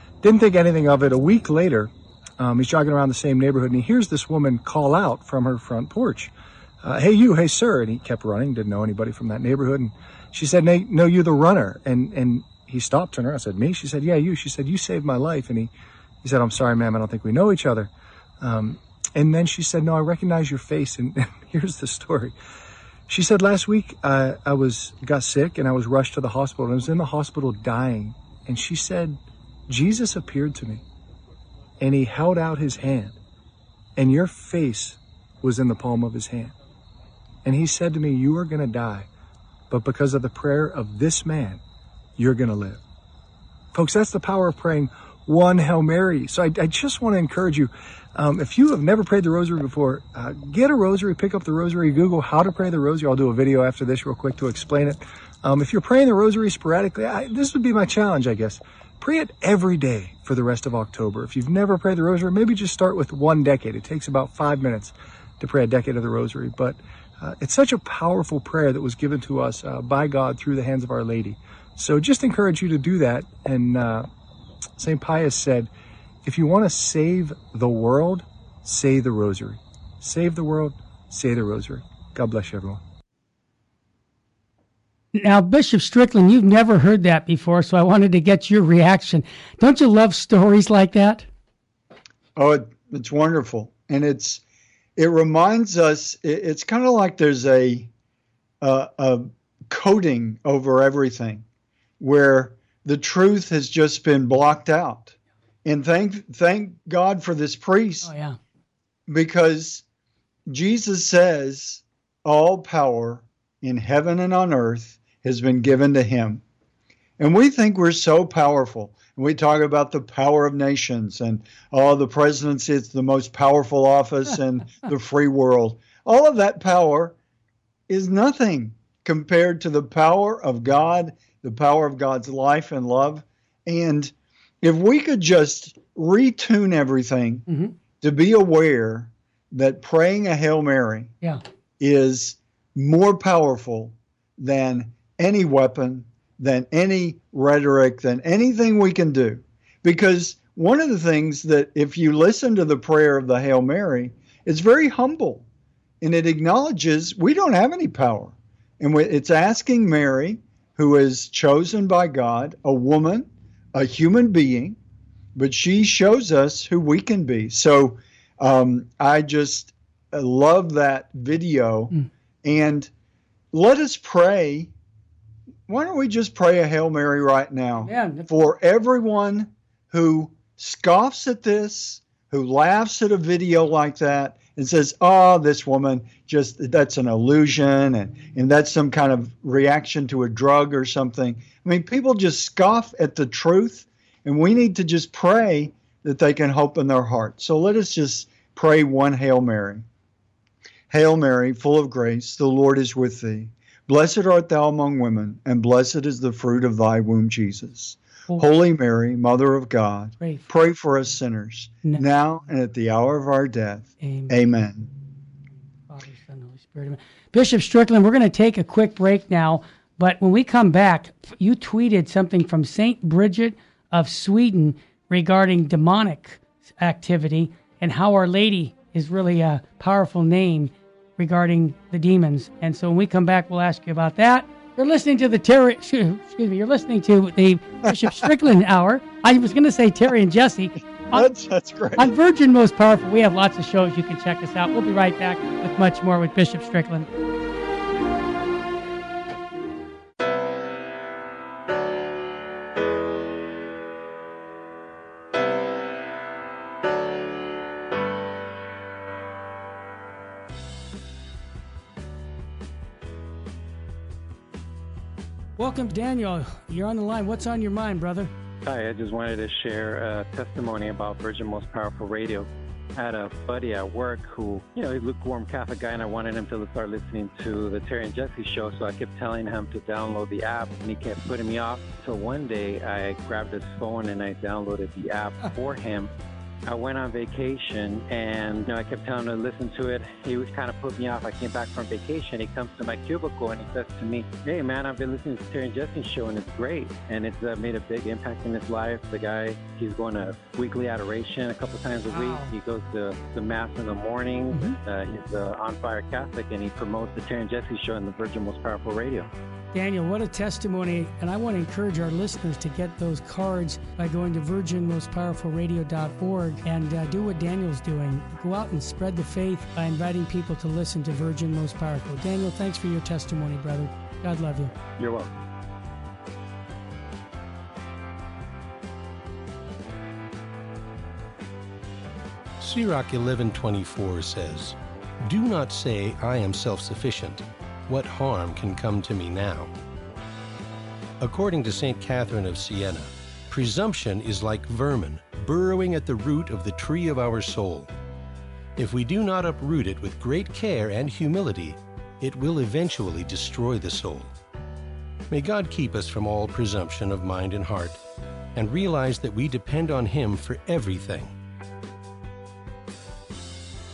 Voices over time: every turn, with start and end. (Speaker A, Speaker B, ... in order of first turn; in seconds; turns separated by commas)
Speaker A: 0.2-15.7, Speaker A: 16.2-22.4, Speaker A: 23.1-30.8, Speaker A: 31.8-33.2, Speaker A: 34.0-36.5, Speaker A: 37.4-39.1, Speaker A: 39.7-41.6, Speaker A: 42.2-42.8, Speaker A: 43.7-74.1, Speaker A: 74.8-75.7, Speaker A: 76.2-82.8, Speaker B: 85.1-91.3, Speaker C: 92.4-94.4, Speaker C: 95.0-97.9, Speaker C: 98.6-101.5, Speaker C: 102.0-108.1, Speaker B: 108.0-108.4, Speaker C: 109.1-109.8, Speaker C: 110.5-116.4, Speaker C: 117.2-127.2, Speaker C: 127.9-137.4, Speaker B: 137.5-137.7, Speaker C: 138.0-141.1, Speaker C: 141.8-155.5, Speaker C: 156.0-164.8, Speaker C: 165.3-171.9, Speaker C: 172.4-172.9, Speaker C: 173.5-174.7, Speaker C: 175.7-199.8, Speaker B: 177.8-178.3, Speaker C: 200.9-214.9, Speaker B: 214.0-214.3, Speaker B: 215.9-241.3, Speaker C: 237.9-238.2, Speaker C: 241.1-242.1, Speaker B: 242.0-247.1, Speaker B: 265.6-268.3, Speaker D: 268.6-286.1, Speaker D: 286.6-309.3, Speaker B: 302.1-302.5, Speaker B: 304.5-304.8, Speaker B: 309.7-324.7, Speaker D: 325.0-325.3, Speaker E: 332.6-339.7, Speaker E: 341.2-347.9, Speaker E: 348.8-354.3, Speaker E: 355.3-358.0, Speaker E: 358.5-361.3